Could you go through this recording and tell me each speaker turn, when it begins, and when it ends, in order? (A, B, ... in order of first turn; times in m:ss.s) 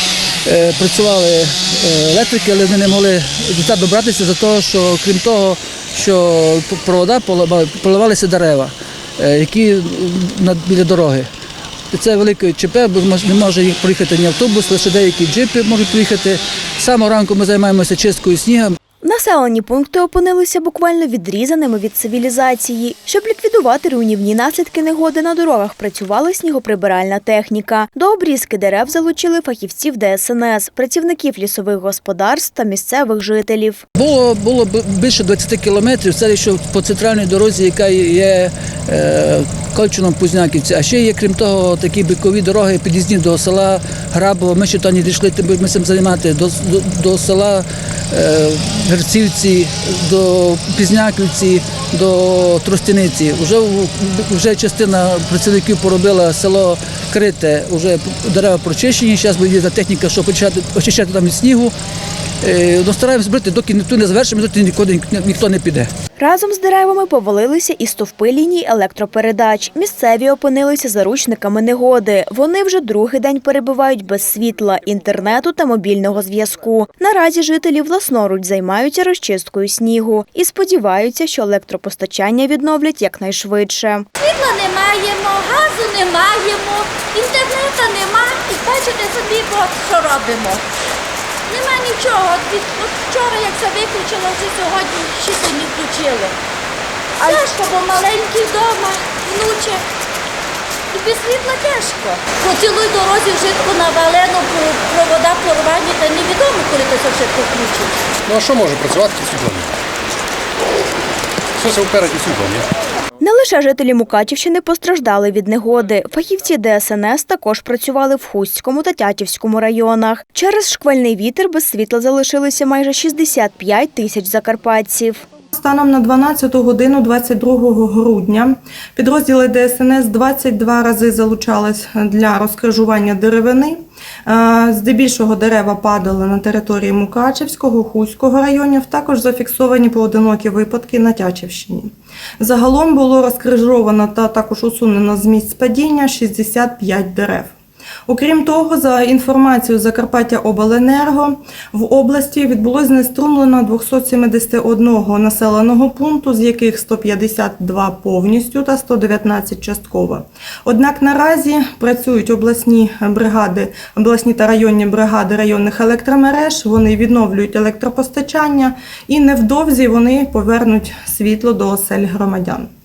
0:00.4-0:11.3 A
0:11.9-0:18.8 A
0:19.0-0:33.8 B
0:34.0-1:01.7 A
1:02.4-1:05.9 A
1:06.2-1:24.1 B
1:24.2-1:30.6 C
1:31.5-1:36.4 C
1:37.2-1:39.8 C
1:40.9-1:48.0 C
1:48.3-1:49.7 D
1:51.6-1:52.7 D
1:53.2-2:05.3 B
2:05.5-2:27.6 E
2:28.1-2:52.7 E